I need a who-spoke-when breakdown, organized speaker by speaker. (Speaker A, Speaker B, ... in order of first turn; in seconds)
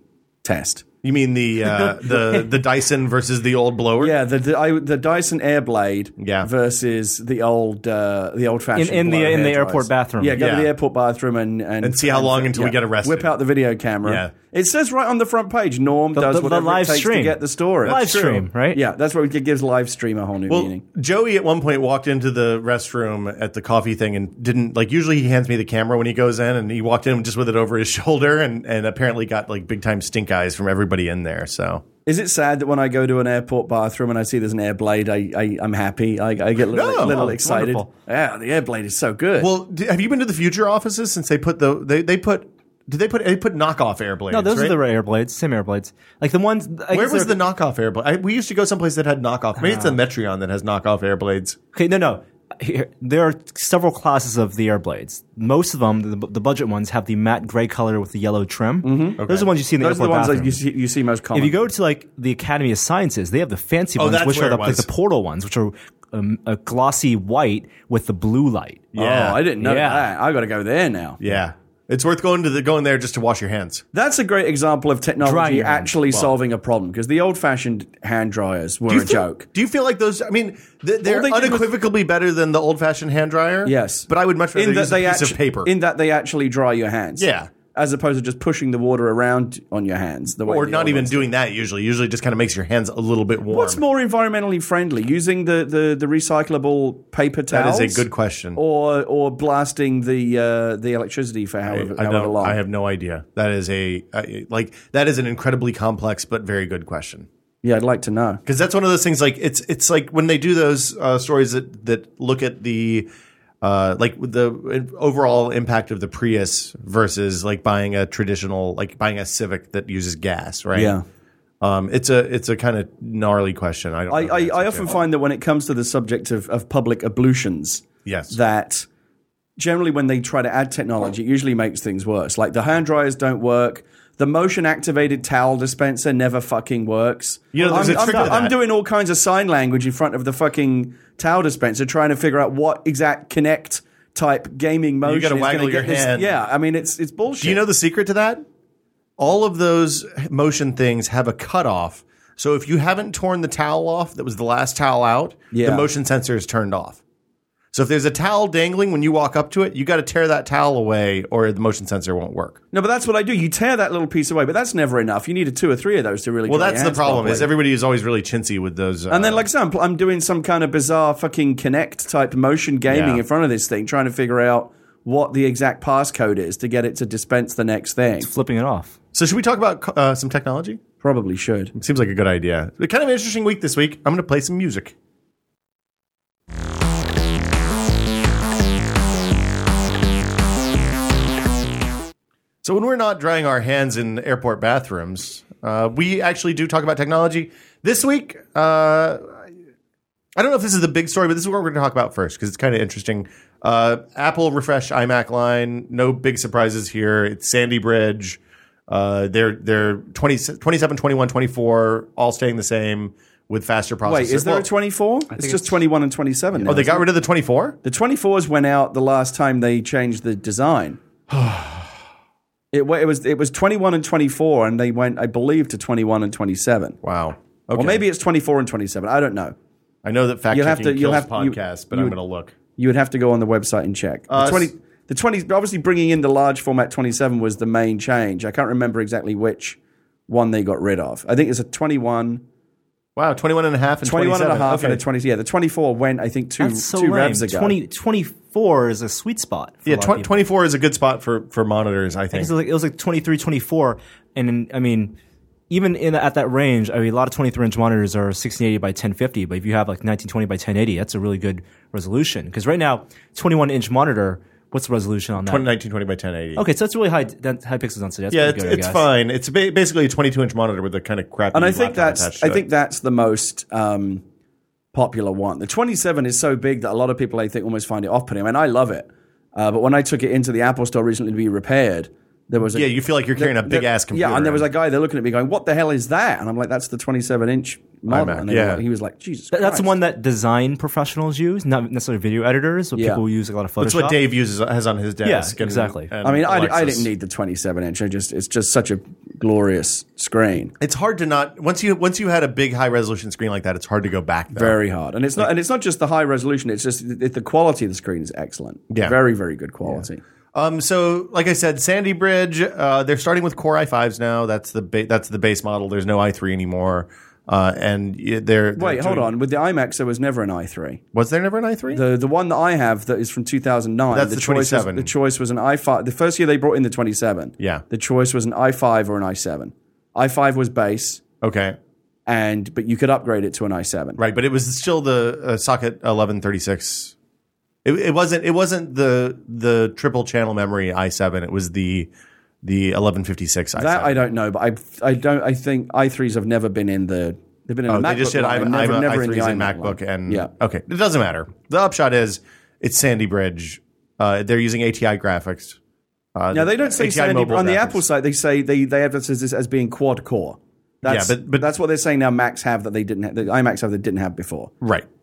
Speaker A: 0.4-0.8, 4.0-20.8, 32.0-39.5, 58.8-59.2, 59.8-61.7, 69.0-71.2, 73.9-79.4, 81.0-81.7, 83.6-91.3, 93.5-102.6, 107.6-108.4, 120.7-121.0, 124.1-128.9, 129.6-147.6, 155.5-155.9, 162.7-167.5, 169.1-178.3, 181.0-181.7, 214.0-217.1, 217.8-221.0, 222.7-227.0, 227.7-229.5, 230.5-232.2, 232.8-242.4, 244.0-247.8, 271.5-274.2, 274.9-289.9, 292.9-293.2, 296.2-300.7, 304.5-310.2, 318.8-321.0, 321.9-331.2, 332.2-334.2, 343.8-350.5, 356.5-364.7
Speaker B: 1.0-4.1, 6.2-6.5, 10.3-10.7, 11.8-13.3, 14.0-14.3, 17.8-18.3, 20.5-31.8, 36.7-37.4, 39.4-44.8, 46.9-51.6, 59.2-59.5, 64.0-64.9, 68.9-69.4, 71.2-73.8, 78.9-85.7, 87.2-87.5, 90.4-93.8, 97.5-98.6, 101.6-107.3, 108.5-113.1, 113.6-121.0, 121.6-125.0, 128.0-128.3, 137.5-138.5, 145.0-146.4, 147.4-148.4, 149.2-157.0, 157.7-162.6, 166.5-169.4, 172.9-173.2, 179.1-180.8, 181.7-184.9, 192.6-199.3, 200.3-214.7, 216.6-217.8, 221.3-221.9, 227.0-228.0, 230.0-232.5, 234.3-234.7, 243.2-245.0, 249.8-252.5, 265.4-266.6, 268.3-272.6, 282.7-284.7, 288.1-288.8, 293.8-297.1, 300.8-304.8, 308.9-309.1, 309.9-319.3, 321.1-322.0, 324.1-325.1, 327.6-327.8, 331.4-331.8, 334.2-337.1, 337.8-342.1, 342.6-344.2, 347.9-355.8, 356.3-358.0, 361.0-361.7, 364.8-365.1
Speaker C: 8.7-10.4, 16.1-18.8, 37.0-37.9, 44.3-47.4, 49.6-49.9, 51.7-60.6, 61.3-68.9, 69.6-70.1, 75.2-75.9, 137.6-138.3, 178.2-178.9, 215.4-215.6, 246.6-250.3, 252.3-255.2, 255.7-265.7, 266.6-269.0, 289.5-294.2, 295.2-296.1